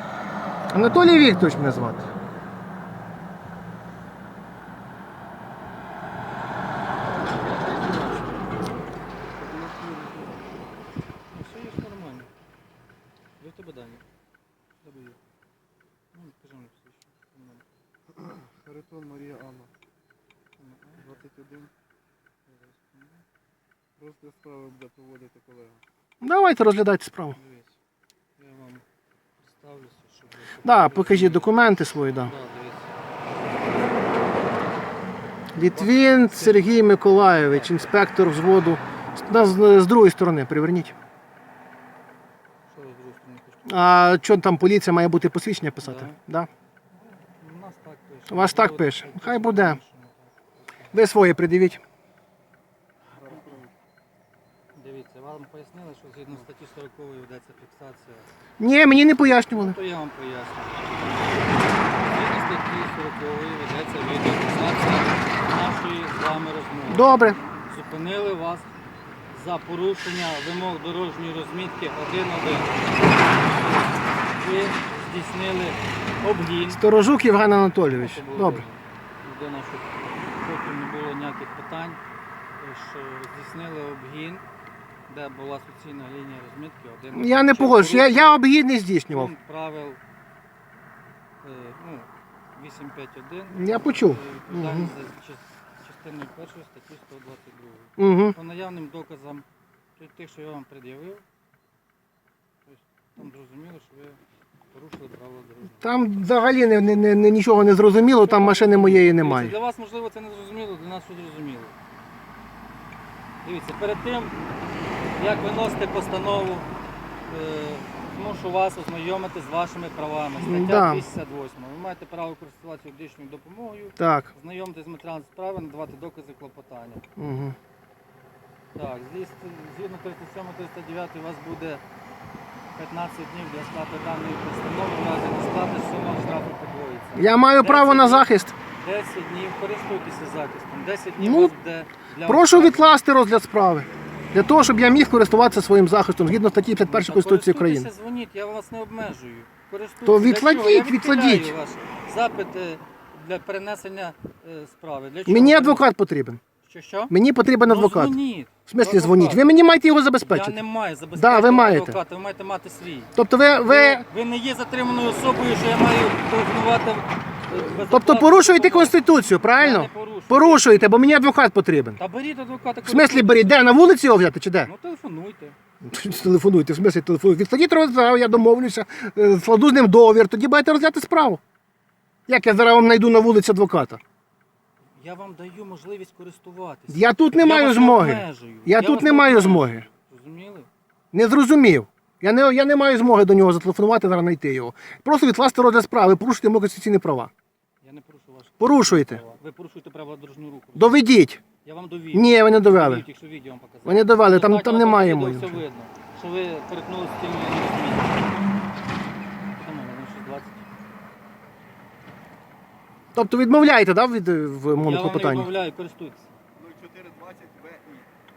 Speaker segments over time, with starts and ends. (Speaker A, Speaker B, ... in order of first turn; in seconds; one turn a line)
Speaker A: 0.7-2.1
Speaker B: 7.6-8.3
Speaker C: 9.4-10.7
Speaker B: 11.3-12.3
Speaker B: 13.4-14.0
Speaker B: 14.8-15.2
Speaker B: 16.1-17.6
Speaker C: 18.4-19.7
Speaker B: 20.6-21.2
Speaker C: 21.0-21.7
Speaker B: 22.5-23.2
Speaker C: 24.0-25.8
Speaker A: 26.2-27.4
Speaker B: 27.3-27.7
Speaker B: 28.4-28.8
Speaker B: 29.4-31.6
Speaker A: 30.6-32.3
Speaker B: 32.1-33.0
Speaker A: 35.5-40.9
Speaker B: 35.7-38.0
Speaker B: 42.7-43.7
Speaker A: 43.7-46.5
Speaker B: 45.8-46.2
Speaker B: 46.9-50.9
Speaker A: 48.3-49.8
Speaker A: 50.9-51.8
Speaker C: 53.2-53.7
Speaker B: 54.8-58.3
Speaker A: 58.6-59.8
Speaker B: 59.5-61.3
Speaker B: 61.9-68.7
Speaker A: 66.9-67.4
Speaker B: 69.3-76.8
Speaker A: 76.7-78.6
Speaker B: 77.9-82.0
Speaker B: 82.6-84.4
Speaker B: 85.1-88.4
Speaker A: 87.1-89.3
Speaker B: 89.1-90.0
Speaker B: 91.4-99.4
Speaker A: 93.5-94.9
Speaker A: 98.0-98.3
Speaker B: 100.0-101.2
Speaker B: 102.7-104.2
Speaker B: 104.7-105.9
Speaker A: 105.8-109.5
Speaker B: 108.2-111.7
Speaker B: 113.4-114.3
Speaker B: 115.2-116.7
Speaker B: 117.3-127.0
Speaker A: 120.4-121.0
Speaker A: 124.0-124.3
Speaker A: 127.2-127.5
Speaker B: 128.7-131.8
Speaker B: 132.7-142.9
Speaker A: 137.2-138.5
Speaker A: 141.2-141.5
Speaker A: 142.2-147.9
Speaker B: 146.8-155.8
Speaker A: 150.1-151.5
Speaker A: 155.3-156.4
Speaker B: 156.6-157.1
Speaker A: 157.1-158.2
Speaker B: 157.6-159.5
Speaker A: 158.7-160.6
Speaker B: 160.2-163.1
Speaker A: 161.1-162.0
Speaker A: 163.1-164.0
Speaker B: 163.6-169.0
Speaker A: 167.5-172.0
Speaker B: 169.5-170.9
Speaker B: 172.0-173.7
Speaker A: 172.8-174.7
Speaker B: 174.6-175.6
Speaker A: 175.8-181.4
Speaker A: 182.3-184.0
Speaker B: 185.0-190.7
Speaker A: 186.9-189.8
Speaker A: 191.1-197.3
Speaker B: 197.8-201.0
Speaker A: 198.6-199.2
Speaker A: 200.8-201.4
Speaker B: 201.6-208.3
Speaker A: 202.1-203.0
Speaker A: 203.8-205.6
Speaker B: 209.5-210.6
Speaker A: 213.1-215.5
Speaker B: 214.7-216.3
Speaker C: 216.6-218.1